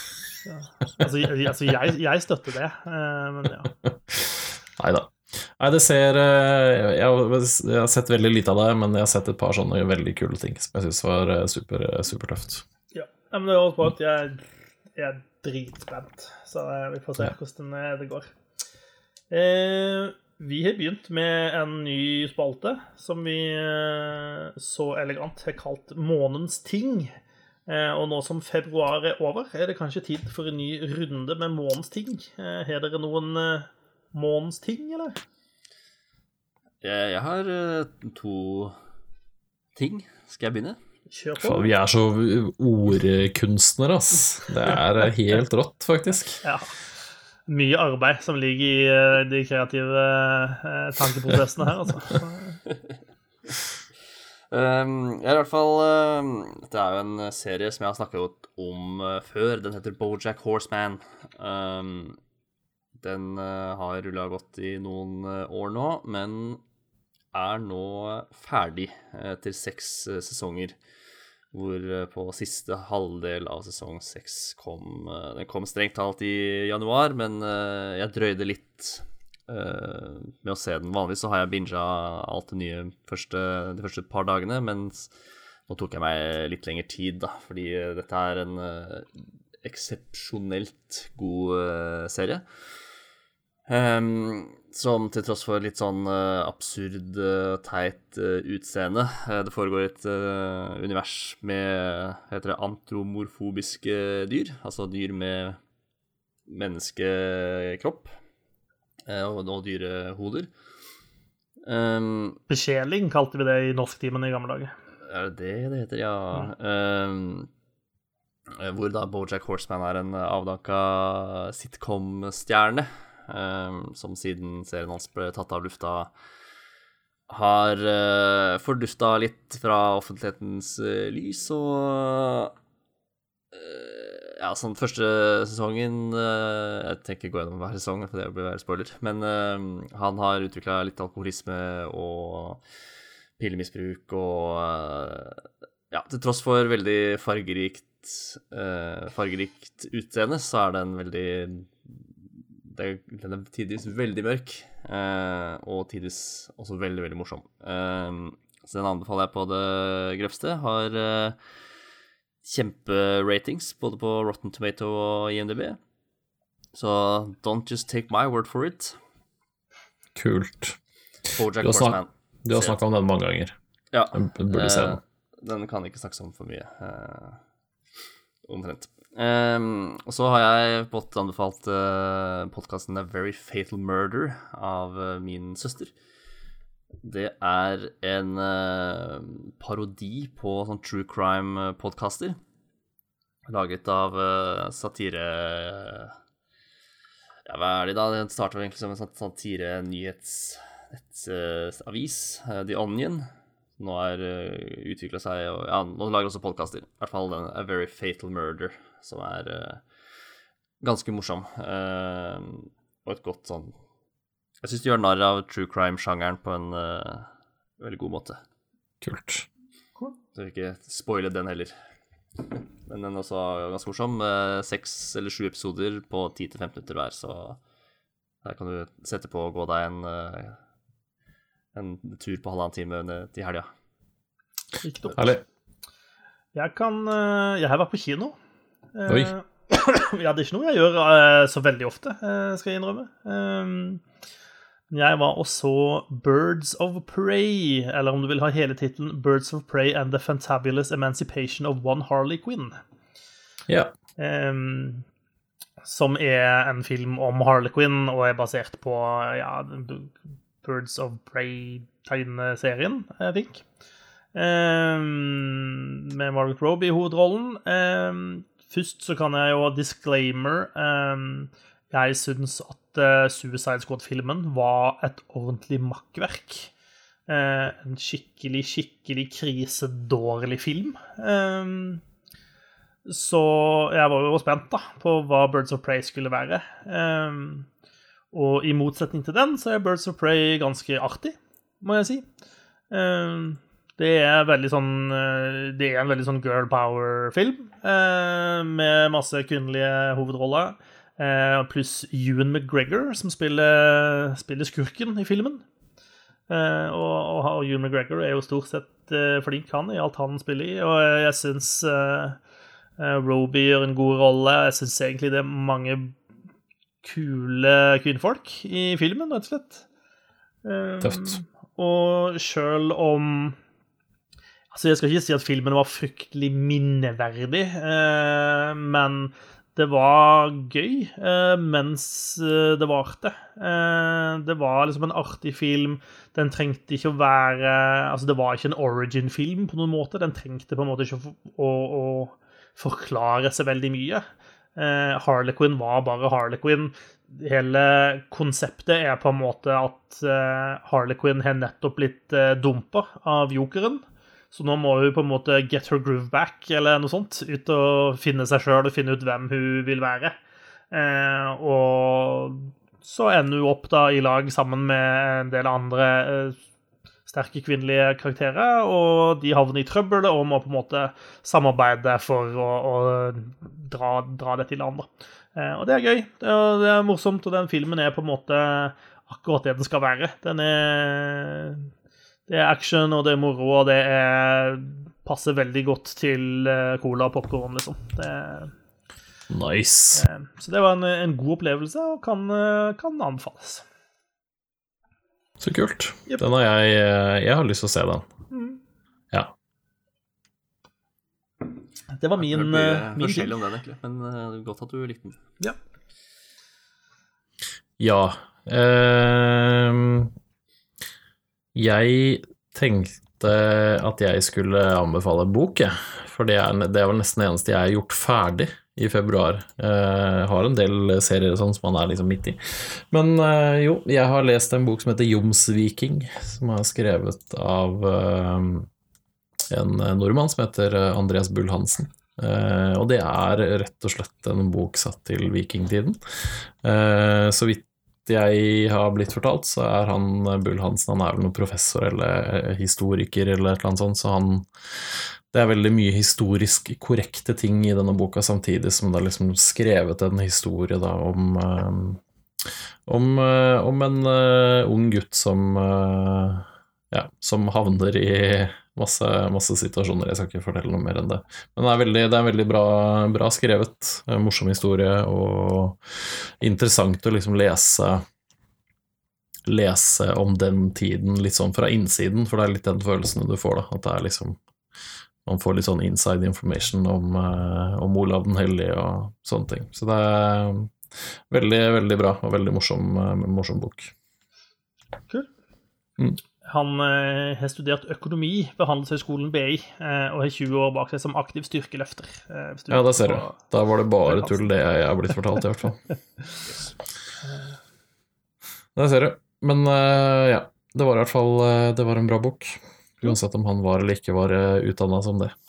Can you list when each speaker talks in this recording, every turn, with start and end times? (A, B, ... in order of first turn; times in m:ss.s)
0:00.4-0:03.7 A
0:03.8-0:12.6 B
0:12.9-0:18.3 A
0:19.3-0:27.1 A
0:27.7-0:35.2 A
0:36.8-0:38.8 C
0:39.8-0:40.8 C
0:41.1-0:41.7 A
0:41.4-0:46.4 B
0:46.4-0:46.7 A
0:47.5-0:52.6 A
0:54.5-1:02.2 C
1:03.0-1:06.6 C
1:07.3-1:10.8 C
1:11.5-1:25.1 C
1:25.7-1:29.1 C
1:29.6-1:32.4 C
1:33.7-1:45.6 C
1:46.5-1:48.1 C
1:49.1-1:50.5 C
1:51.6-1:52.4 C
1:52.5-1:54.7 A
1:55.0-1:57.5 C
1:58.5-2:06.1 C
2:07.3-2:12.5 C
2:13.5-2:22.6 C
2:23.4-2:32.0 C
2:32.7-2:41.4 C
2:42.4-2:45.8 C
2:46.7-2:49.0 C
2:50.2-2:50.8 B
2:51.3-2:52.8 C
2:51.6-2:53.5 B
2:53.9-2:57.4 C
2:54.1-2:55.0 B
2:58.4-3:05.9 C
3:07.0-3:12.4 C
3:13.5-3:16.1 C
3:17.4-3:23.3 C
3:23.8-3:29.8 C
3:30.8-3:33.7 C
3:34.6-3:38.4 C
3:39.0-3:39.5 B
3:40.3-3:41.7 C
3:42.4-3:47.6 C
3:48.4-3:50.6 C
3:51.7-3:53.7 C
3:54.8-3:55.3 A
3:55.2-3:55.4 B
3:56.5-3:58.4 A
3:58.9-4:04.0 A
4:04.9-4:12.8 A
4:13.7-4:13.9 B
4:14.2-4:15.0 A
4:15.8-4:23.6 A
4:24.3-4:36.7 A
4:37.3-4:42.0 A
4:43.0-4:47.7 A
4:48.3-4:52.3 A
4:52.9-5:05.6 A
5:06.5-5:12.4 A
5:13.0-5:16.2 A
5:17.0-5:19.8 A
5:20.6-5:23.6 A
5:21.0-5:21.4 B
5:24.7-5:44.2 A
5:44.8-6:00.3 A
6:00.9-6:06.6 A
6:07.2-6:21.9 A
6:22.5-6:28.7 A
6:29.5-6:30.2 B
6:30.2-6:33.8 A
6:35.6-6:38.3 B
6:38.5-6:38.8 A
6:42.1-6:43.6 A
6:42.4-6:45.4 C
6:48.0-6:50.3 B
6:51.7-7:08.9 B
7:09.7-7:48.2 B
7:49.7-7:54.6 B
7:55.4-8:00.9 B
8:01.5-8:04.1 B
8:06.6-8:13.6 A
8:12.9-8:16.0 B
8:14.2-8:14.6 A
8:17.4-8:17.7 A
8:19.0-8:25.5 B